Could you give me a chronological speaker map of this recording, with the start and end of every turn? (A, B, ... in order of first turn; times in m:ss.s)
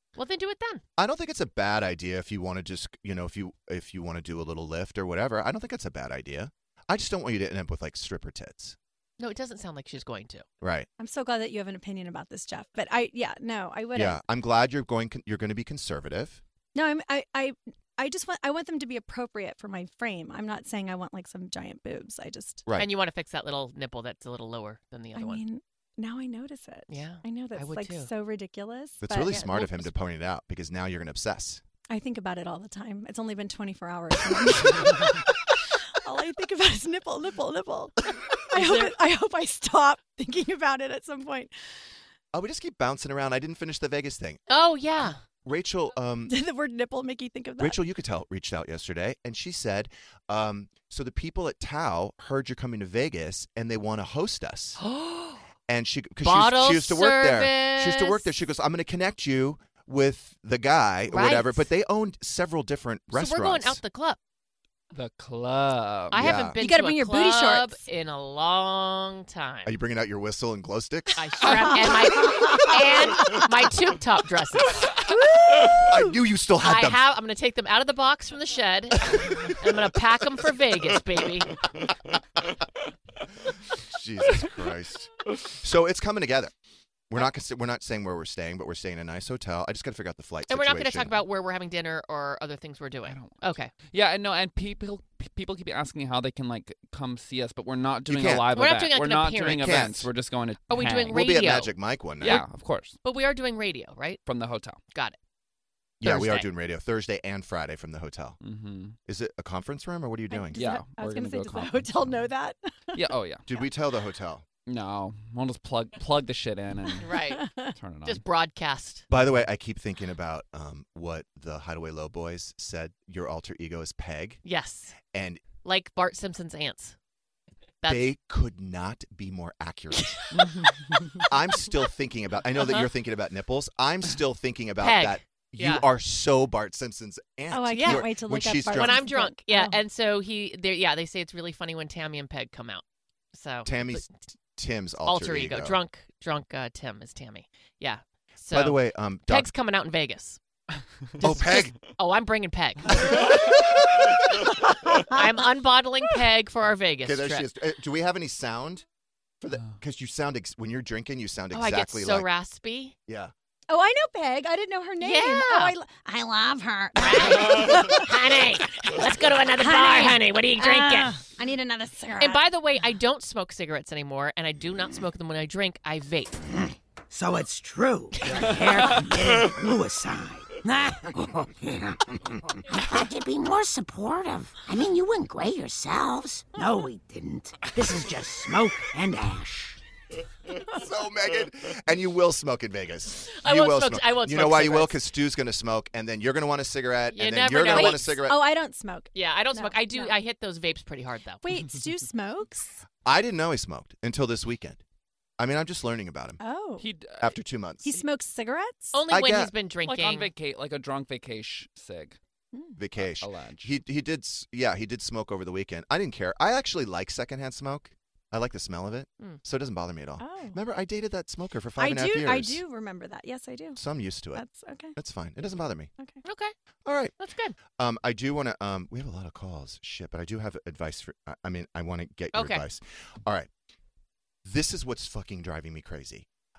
0:00.1-0:00.8 A
0:01.0-0:08.8 B
0:09.2-0:10.5 A
0:10.6-0:10.9 B
0:11.0-0:14.2 C
0:14.0-0:16.4 B
0:16.8-0:22.6 C
0:22.6-0:22.9 B
0:22.8-0:25.4 A
0:25.1-0:29.6 C
0:26.9-0:28.1 A
0:29.0-0:31.6 B
0:29.1-0:29.8 A
0:31.9-0:41.5 C
0:42.3-0:44.4 B
0:44.5-0:45.2 A
0:45.4-0:46.3 B
0:46.3-0:47.8 C
0:47.6-0:54.8 B
0:54.8-0:55.4 A
0:55.7-1:03.8 B
0:56.2-0:58.3 A
1:01.1-1:01.6 A
1:03.1-1:04.2 A
1:04.9-1:06.3 D
1:06.1-1:09.8 A
1:06.1-1:06.6 B
1:06.6-1:07.8 C
1:09.6-1:11.4 B
1:11.2-1:15.0 A
1:11.4-1:12.7 C
1:15.1-1:16.1 C
1:15.8-1:17.0 B
1:16.6-1:21.6 A
1:23.8-1:26.5 B
1:27.1-1:31.2 B
1:30.5-1:33.7 A
1:33.0-1:41.2 D
1:38.1-1:38.5 B
1:38.5-1:39.9 A
1:39.5-1:40.1 B
1:40.7-1:42.5 A
1:41.1-1:42.4 B
1:42.2-1:43.0 D
1:43.0-1:44.2 A
1:44.2-1:44.8 D
1:46.0-1:48.4 B
1:46.0-1:46.5 A
1:48.4-1:49.0 D
1:49.0-1:50.6 B
1:50.3-1:53.1 C
1:50.6-1:52.3 D
1:52.9-1:53.4 D
1:53.5-1:54.4 B
1:54.7-1:58.2 D
1:57.0-1:57.5 A
1:57.4-1:57.7 C
1:58.0-1:59.0 A
1:59.1-2:04.4 B
2:04.4-2:05.0 A
2:05.1-2:05.4 B
2:05.6-2:07.0 A
2:07.8-2:08.1 A
2:07.9-2:10.3 B
2:10.3-2:11.0 D
2:11.3-2:19.0 B
2:12.6-2:12.9 A
2:14.8-2:15.9 A
2:17.5-2:19.8 C
2:17.7-2:18.1 A
2:18.7-2:24.1 A
2:23.6-2:25.8 B
2:25.0-2:30.4 A
2:28.5-2:29.5 B
2:31.2-2:31.8 B
2:31.2-2:33.4 A
2:33.1-2:34.1 B
2:35.0-2:37.4 A
2:37.0-2:38.8 B
2:39.4-2:42.3 B
2:41.5-2:43.0 A
2:43.1-2:43.3 B
2:43.7-2:48.3 C
2:45.0-2:45.7 A
2:47.0-2:51.2 A
2:49.6-2:52.4 C
2:52.2-2:56.4 A
2:57.1-3:02.2 E
3:02.7-3:09.8 E
3:10.6-3:18.4 B
3:13.4-3:15.0 A
3:17.1-3:18.2 A
3:17.7-3:20.2 C
3:19.1-3:21.4 A
3:21.4-3:22.8 C
3:23.0-3:24.8 B
3:25.4-3:26.4 B
3:26.4-3:26.9 C
3:26.8-3:27.4 D
3:27.2-3:28.0 B
3:27.8-3:29.0 C
3:28.9-3:30.3 A
3:29.1-3:29.5 B
3:29.8-3:32.2 D
3:32.8-3:42.6 B
3:33.0-3:33.7 D
3:40.2-3:40.6 C
3:41.8-3:43.8 C
3:43.8-3:44.4 B
3:44.3-3:45.0 C
3:45.0-3:45.9 B
3:46.2-3:46.5 A
3:46.9-3:53.5 B
3:47.2-3:47.6 A
3:52.3-3:52.6 A
3:54.4-3:56.3 B